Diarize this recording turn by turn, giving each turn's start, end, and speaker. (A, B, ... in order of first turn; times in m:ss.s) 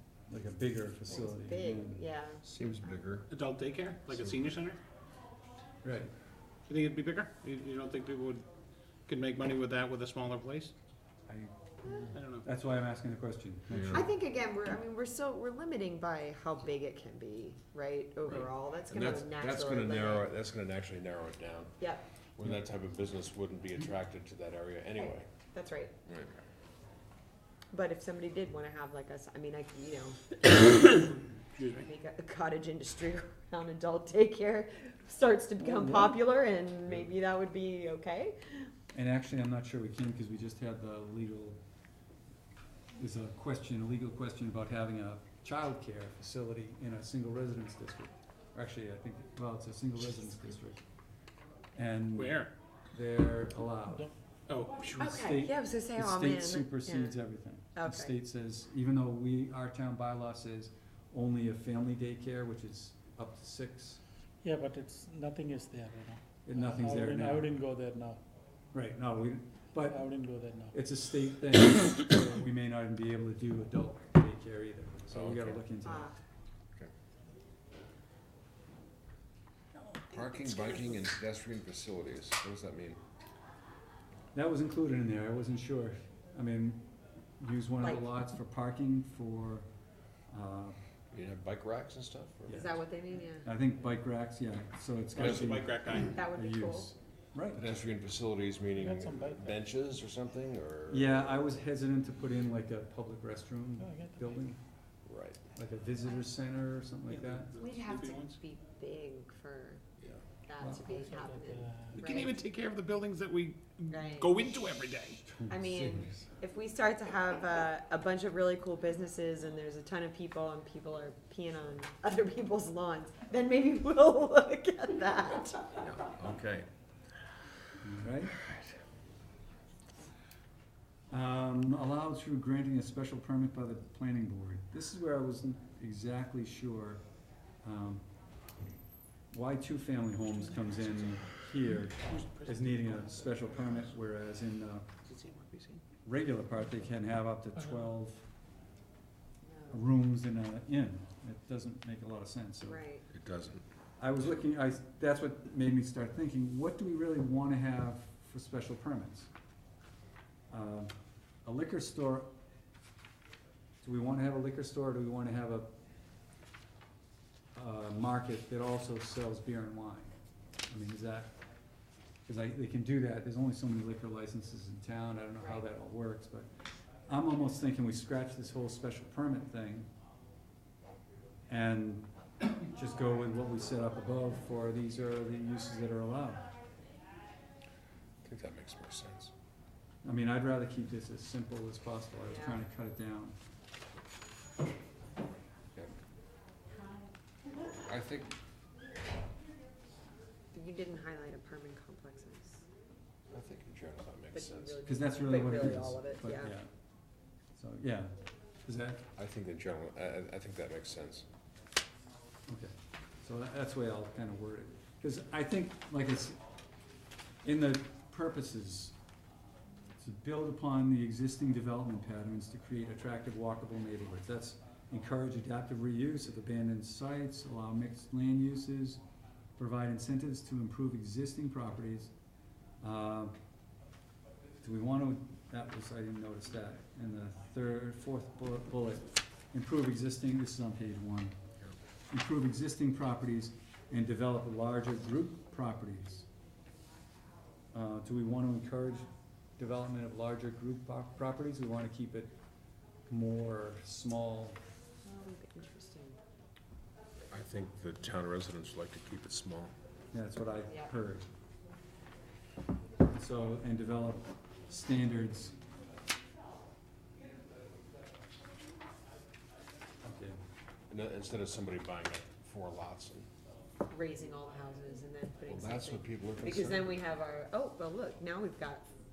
0:00.3-0:02.0 A
0:01.1-0:02.4 B
0:02.4-0:03.3 C
0:03.3-0:04.8 D
0:04.1-0:04.6 C
0:05.8-0:06.1 A
0:06.7-0:08.4 D
0:09.1-0:10.7 D
0:11.3-0:14.1 A
0:12.1-0:12.5 D
0:13.7-0:14.0 C
0:13.9-0:20.3 B
0:18.2-0:21.8 C
0:21.8-0:22.0 B
0:22.4-0:25.3 C
0:25.5-0:25.9 B
0:26.0-0:26.4 C
0:27.7-0:38.7 B
0:31.6-0:31.8 D
0:35.6-0:36.2 A
0:38.9-0:41.6 A
0:43.0-0:50.8 A
0:51.7-0:54.1 A
0:52.2-0:52.5 D
0:54.5-0:55.0 D
0:55.0-1:04.0 A
0:55.0-0:57.2 B
0:57.7-0:58.1 B
1:04.4-1:08.2 E
1:06.4-1:07.5 A
1:08.7-1:10.0 A
1:09.8-1:10.8 E
1:10.7-1:16.1 A
1:15.1-1:15.6 C
1:15.8-1:16.2 B
1:20.1-1:23.0 C
1:24.3-1:26.8 A
1:27.4-1:29.6 A
1:27.8-1:28.0 B
1:30.3-1:30.8 A
1:31.1-1:32.6 C
1:32.5-1:33.5 B
1:33.4-1:37.6 A
1:35.1-1:36.2 D
1:35.2-1:35.5 C
1:36.0-1:36.9 B
1:37.5-1:41.6 C
1:38.8-1:39.5 E
1:40.9-1:44.6 A
1:43.8-1:44.3 E
1:45.0-1:45.4 C
1:45.5-1:47.5 A
1:47.1-1:48.4 D
1:47.6-1:49.8 B
1:50.4-1:52.4 B
1:50.6-1:51.0 A
1:50.8-1:52.0 E
1:51.9-1:55.3 D
1:53.9-1:54.7 B
1:55.2-1:56.2 A
1:55.5-2:05.8 B
2:05.7-2:06.7 C
2:07.8-2:08.3 A
2:08.4-2:08.7 C
2:11.1-2:17.0 A
2:17.6-2:18.0 A
2:19.3-2:24.9 A
2:22.0-2:23.4 D
2:25.0-2:25.8 D
2:26.0-2:28.2 A
2:29.4-2:29.8 B
2:29.7-2:32.8 A
2:32.6-2:33.0 B
2:33.1-2:33.6 C
2:34.0-2:39.3 A
2:40.5-2:40.9 A
2:41.4-2:42.3 A
2:43.8-2:45.7 A
2:47.5-2:50.1 A
2:50.7-2:51.4 A
2:52.2-2:59.9 A
3:01.5-3:06.5 A
3:08.2-3:09.3 C
3:10.0-3:13.3 A
3:12.3-3:12.6 B
3:17.8-3:18.3 C
3:20.5-3:22.6 B
3:23.3-3:24.8 C
3:24.3-3:26.5 B
3:24.8-3:26.7 A
3:27.5-3:28.1 A
3:28.6-3:29.0 A
3:29.2-3:31.2 C
3:32.5-3:36.4 A
3:37.4-3:38.9 A
3:40.0-3:49.0 A
3:49.6-3:52.1 A
3:52.8-3:53.3 A
3:54.6-4:01.4 A
4:02.1-4:06.3 A
4:07.7-4:12.3 A
4:13.1-4:14.6 A
4:15.0-4:16.2 B
4:17.3-4:19.7 C
4:20.1-4:21.3 A
4:23.1-4:25.5 A
4:30.0-4:30.4 A
4:30.9-4:33.3 C
4:33.9-4:38.8 B
4:35.5-4:36.9 C